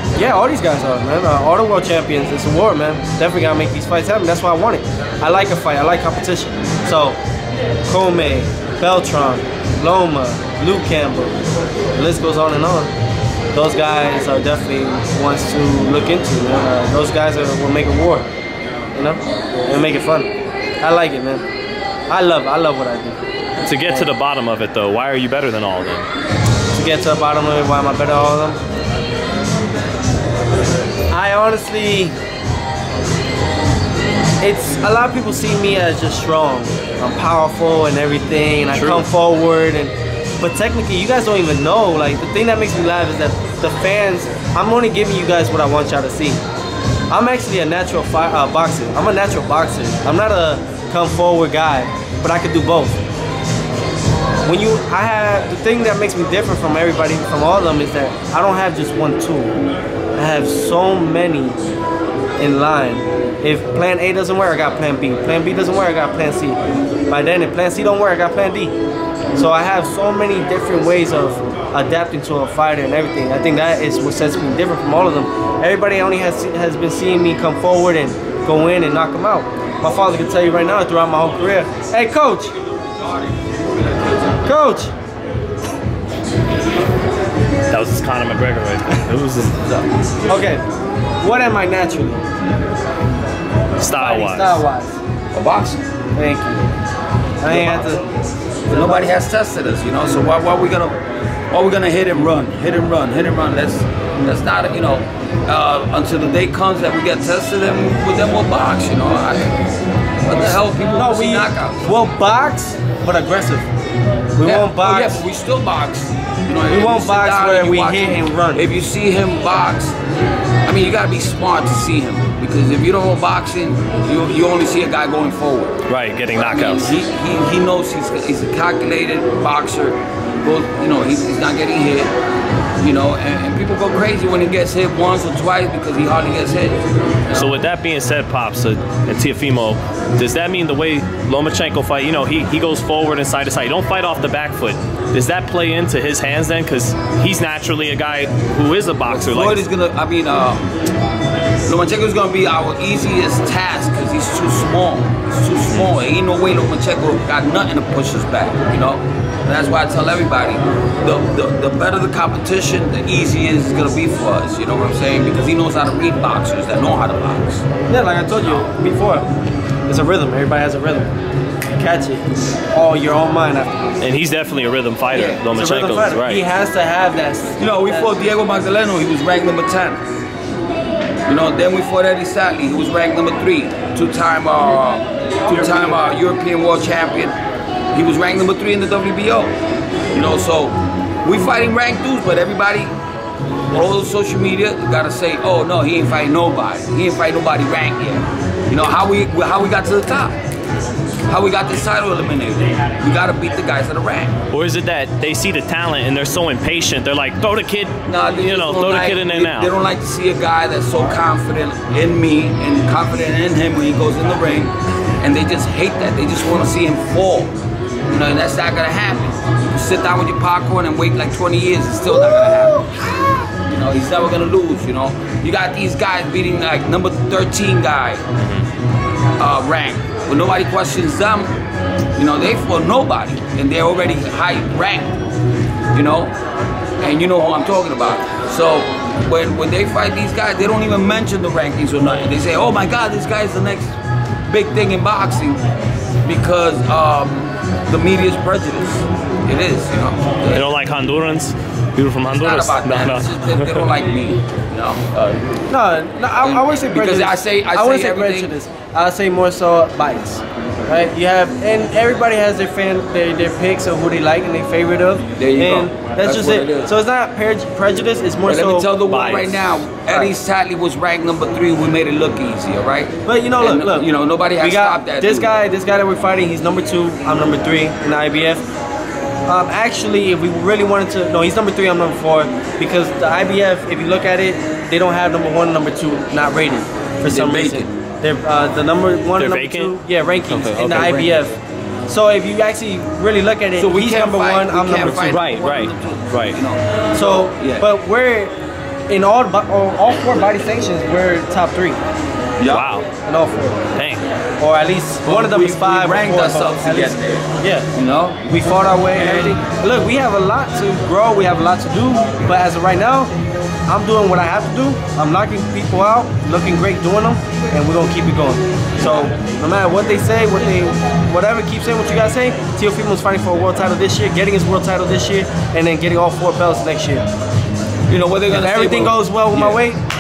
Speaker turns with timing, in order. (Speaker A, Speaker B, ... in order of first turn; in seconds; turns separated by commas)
Speaker A: 0.1-7.2, Speaker A: 7.8-11.4, Speaker A: 11.9-12.9, Speaker A: 13.5-18.3, Speaker A: 18.9-21.4, Speaker A: 22.1-23.2, Speaker B: 23.6-26.1, Speaker A: 23.8-24.1, Speaker A: 26.7-28.6, Speaker A: 31.1-32.1, Speaker A: 34.4-46.4, Speaker B: 38.7-39.0, Speaker A: 47.1-53.0, Speaker A: 54.4-59.5, Speaker A: 60.1-61.6, Speaker A: 62.4-68.8, Speaker A: 69.3-82.5, Speaker A: 84.4-84.9, Speaker B: 87.7-89.7, Speaker A: 90.3-90.6, Speaker A: 91.2-92.2, Speaker B: 93.8-94.6, Speaker A: 93.9-95.0, Speaker C: 95.3-95.9, Speaker A: 96.1-96.6, Speaker A: 97.4-98.0, Speaker C: 97.5-98.0, Speaker A: 98.7-99.1, Speaker C: 98.7-101.0, Speaker C: 101.5-109.6, Speaker C: 110.2-111.9, Speaker A: 110.9-113.7, Speaker A: 114.3-115.2, Speaker C: 114.4-120.0, Speaker A: 116.7-118.7, Speaker C: 120.7-125.8, Speaker B: 125.9-127.0, Speaker C: 126.3-132.1, Speaker C: 132.8-137.5, Speaker B: 137.3-149.6, Speaker C: 149.1-150.7, Speaker C: 151.7-167.7, Speaker A: 167.9-169.3, Speaker A: 169.9-171.1, Speaker A: 171.8-173.8, Speaker B: 174.0-176.4, Speaker C: 175.1-175.4, Speaker A: 175.5-178.3, Speaker C: 177.6-180.0, Speaker C: 181.2-187.4, Speaker A: 185.4-186.0, Speaker C: 187.9-189.5, Speaker C: 190.1-192.9, Speaker C: 193.7-200.4, Speaker C: 201.3-204.3, Speaker B: 204.5-209.7, Speaker C: 208.0-217.5, Speaker C: 218.1-228.2, Speaker B: 228.4-228.7, Speaker C: 229.4-231.5, Speaker C: 232.2-235.2, Speaker C: 235.9-236.3, Speaker C: 237.0-245.6, Speaker C: 246.2-250.7, Speaker B: 250.5-253.9, Speaker C: 252.3-255.4, Speaker A: 255.7-268.9, Speaker C: 256.4-258.5, Speaker C: 265.4-266.9, Speaker C: 268.4-275.5, Speaker B: 269.1-269.6, Speaker A: 270.1-270.3, Speaker A: 273.2-274.1, Speaker A: 274.6-278.6, Speaker A: 279.5-291.5, Speaker C: 287.3-287.9, Speaker B: 289.4-291.3, Speaker A: 292.1-295.5, Speaker C: 293.7-297.9, Speaker B: 295.0-296.6, Speaker A: 297.1-298.5, Speaker A: 299.1-302.0, Speaker C: 302.6-302.9, Speaker B: 302.7-303.1, Speaker A: 303.2-303.9, Speaker B: 303.9-304.2, Speaker A: 304.6-307.9, Speaker C: 305.2-309.6, Speaker A: 308.5-313.3, Speaker A: 313.9-327.3, Speaker C: 319.0-319.3, Speaker C: 328.1-329.8, Speaker A: 328.5-330.0